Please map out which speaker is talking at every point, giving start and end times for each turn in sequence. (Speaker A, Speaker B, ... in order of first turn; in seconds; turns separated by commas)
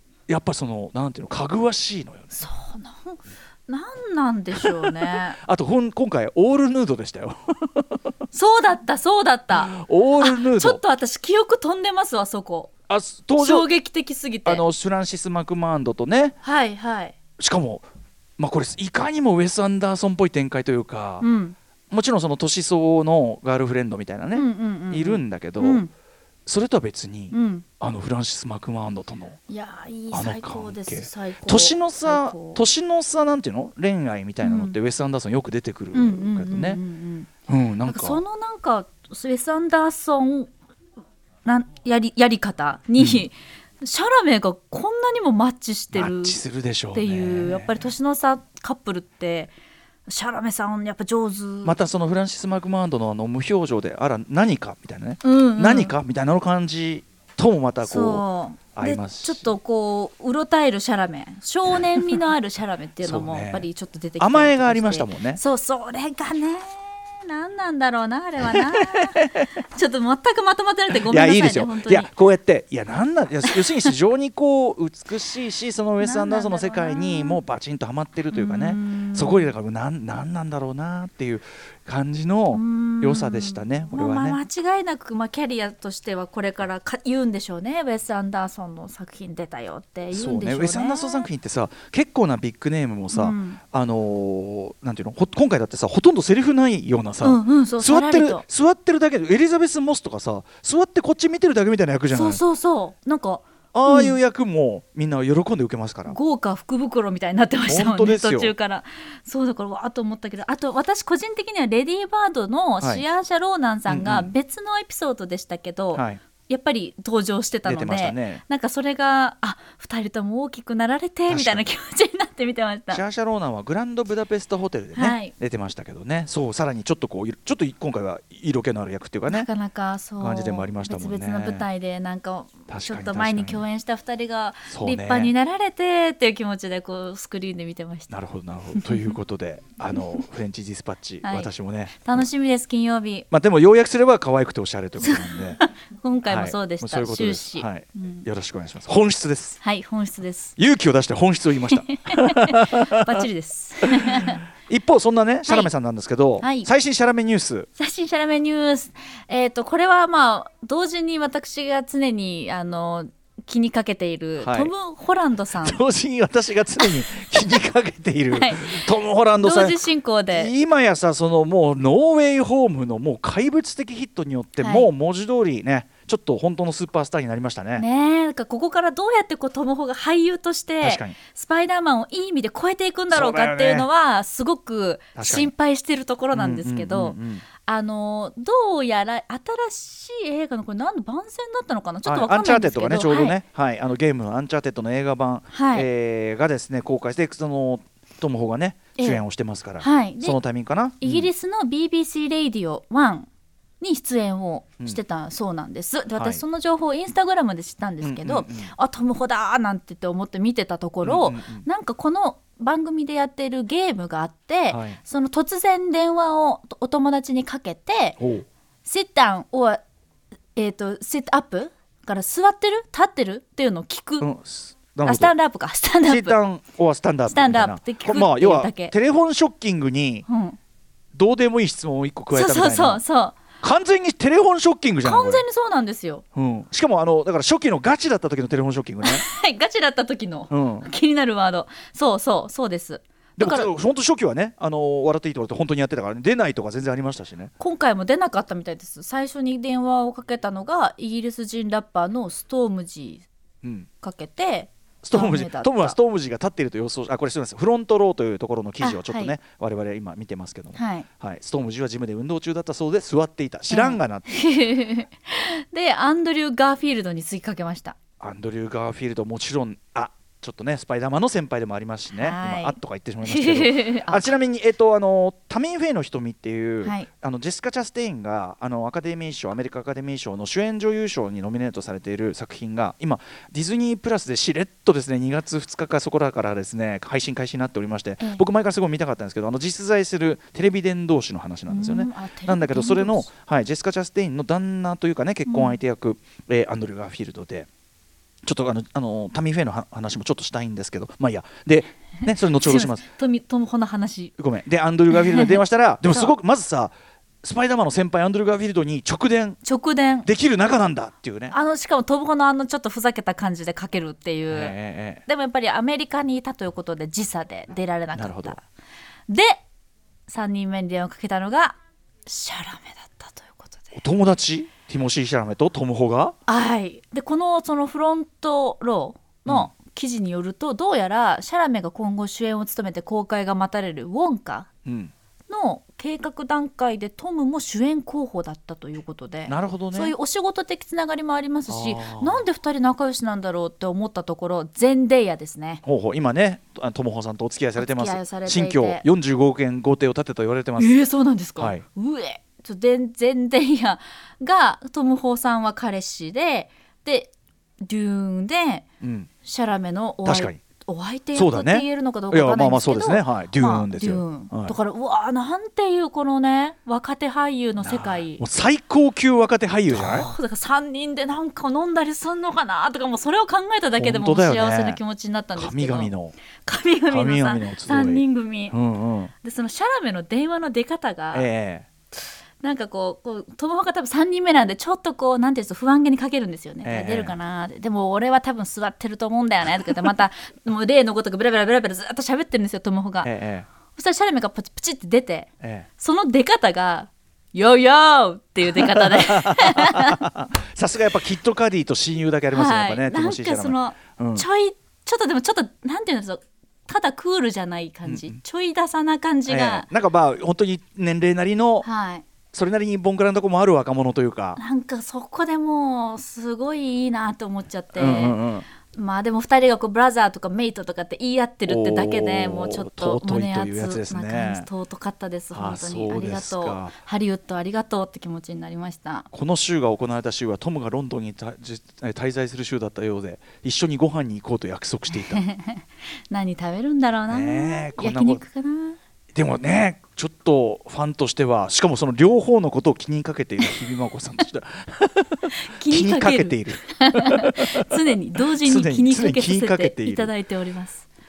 Speaker A: 0.3-2.4, Speaker B: 2.3-5.4, Speaker A: 4.5-8.1, Speaker B: 8.3-12.7, Speaker A: 9.5-10.8, Speaker A: 12.9-13.7, Speaker B: 13.4-14.6, Speaker A: 14.4-16.4, Speaker B: 16.4-17.1, Speaker A: 17.4-17.8, Speaker A: 18.4-21.2, Speaker B: 21.2-21.6, Speaker A: 21.9-25.8, Speaker B: 24.3-25.9, Speaker A: 26.4-29.4, Speaker B: 27.3-27.6, Speaker B: 29.5-32.6, Speaker A: 30.1-36.8, Speaker B: 34.4-34.7, Speaker B: 35.9-37.3, Speaker A: 37.5-38.2, Speaker B: 37.9-40.5, Speaker B: 41.4-46.4, Speaker A: 43.0-43.2, Speaker A: 45.9-47.9, Speaker B: 46.9-49.5, Speaker B: 50.1-51.8, Speaker A: 51.6-58.2, Speaker B: 55.2-55.9, Speaker B: 57.8-72.1, Speaker A: 58.7-59.5, Speaker A: 63.0-63.6, Speaker A: 64.2-65.4, Speaker A: 68.5-69.5, Speaker A: 71.1-84.4, Speaker B: 76.0-77.4, Speaker B: 78.3-79.5, Speaker B: 82.5-91.3, Speaker A: 90.1-102.4, Speaker B: 93.1-93.6, Speaker B: 97.2-98.4, Speaker B: 102.1-104.2, Speaker A: 103.7-106.2, Speaker B: 106.1-123.0, Speaker A: 107.7-108.5, Speaker A: 113.9-114.3, Speaker A: 115.9-116.2, Speaker A: 117.6-118.4, Speaker A: 121.3-121.7, Speaker A: 122.9-129.5, Speaker B: 124.9-125.3, Speaker B: 129.3-138.1, Speaker A: 130.2-131.7, Speaker A: 132.7-133.6, Speaker A: 134.7-135.3, Speaker A: 138.1-142.3, Speaker B: 138.8-139.1, Speaker B: 141.2-141.5, Speaker B: 142.0-143.2, Speaker A: 143.3-145.6, Speaker B: 145.0-148.2, Speaker A: 146.2-149.6, Speaker B: 149.6-150.5, Speaker A: 150.6-153.2, Speaker B: 151.7-154.4, Speaker A: 153.8-157.7, Speaker B: 156.4-156.7, Speaker B: 157.8-165.8, Speaker A: 164.4-164.7, Speaker A: 165.6-177.8, Speaker B: 168.3-168.9, Speaker B: 169.4-170.5, Speaker B: 174.6-174.9, Speaker B: 177.8-193.4, Speaker A: 180.8-181.2, Speaker A: 183.1-183.9, Speaker A: 185.2-185.5, Speaker A: 186.3-187.4, Speaker A: 192.0-201.3, Speaker B: 195.5-195.9, Speaker B: 199.8-200.4, Speaker B: 201.0-203.3, Speaker B: 203.8-218.2, Speaker A: 206.1-206.4, Speaker A: 208.0-208.7, Speaker A: 211.0-211.7, Speaker A: 214.7-215.0, Speaker A: 218.2-218.4, Speaker B: 218.8-219.8, Speaker B: 220.5-224.3, Speaker A: 224.2-225.3, Speaker B: 225.0-226.4, Speaker A: 226.1-230.2, Speaker B: 227.3-228.9, Speaker B: 230.3-230.6, Speaker A: 231.1-233.0, Speaker B: 232.3-233.4, Speaker A: 233.6-235.4, Speaker B: 235.0-236.2, Speaker A: 236.3-239.2, Speaker B: 239.0-243.7, Speaker A: 240.5-240.9, Speaker A: 243.4-247.5, Speaker B: 247.6-253.2, Speaker A: 253.6-253.9, Speaker B: 254.0-256.0, Speaker A: 255.0-264.4, Speaker B: 258.8-259.3, Speaker B: 260.7-261.1, Speaker B: 263.7-268.0, Speaker A: 268.2-297.7, Speaker B: 272.1-274.2, Speaker B: 291.7-293.3, Speaker B: 295.5-295.8, Speaker A: 298.4-303.0, Speaker B: 302.4-304.3, Speaker A: 304.4-309.6, Speaker B: 305.1-305.6, Speaker B: 309.6-310.3, Speaker A: 310.2-311.5, Speaker B: 311.5-314.7, Speaker A: 314.5-315.2, Speaker B: 315.2-318.6, Speaker A: 318.1-318.6, Speaker B: 319.3-319.6, Speaker B: 320.3-324.0, Speaker A: 323.9-326.4, Speaker B: 326.5-334.7, Speaker A: 334.8-335.1, Speaker B: 335.5-345.8, Speaker A: 339.5-340.1, Speaker A: 341.7-342.4, Speaker A: 345.8-351.0, Speaker B: 347.8-349.0, Speaker B: 350.8-357.3, Speaker A: 351.6-351.8, Speaker B: 357.8-358.8, Speaker A: 359.0-359.3, Speaker B: 359.4-368.4, Speaker A: 360.2-360.6, Speaker A: 361.3-364.7, Speaker A: 367.8-370.3, Speaker B: 369.9-376.1, Speaker A: 374.0-375.0, Speaker A: 375.6-376.3, Speaker B: 376.6-378.8, Speaker A: 377.1-379.3, Speaker B: 379.4-381.5, Speaker A: 381.3-381.9, Speaker B: 382.6-393.3, Speaker A: 386.8-387.4, Speaker A: 393.2-393.7, Speaker B: 393.9-400.2, Speaker A: 395.6-395.9, Speaker A: 398.6-404.4, Speaker B: 402.5-409.9, Speaker A: 408.0-408.4, Speaker A: 409.5-411.9, Speaker B: 411.8-412.2, Speaker A: 412.5-414.6, Speaker B: 414.6-429.2, Speaker A: 417.9-418.6, Speaker A: 421.6-424.7, Speaker A: 425.5-426.9, Speaker A: 429.3-435.4, Speaker B: 435.1-439.0, Speaker A: 437.3-438.4, Speaker A: 439.3-447.9, Speaker B: 445.5-451.1, Speaker A: 448.6-450.3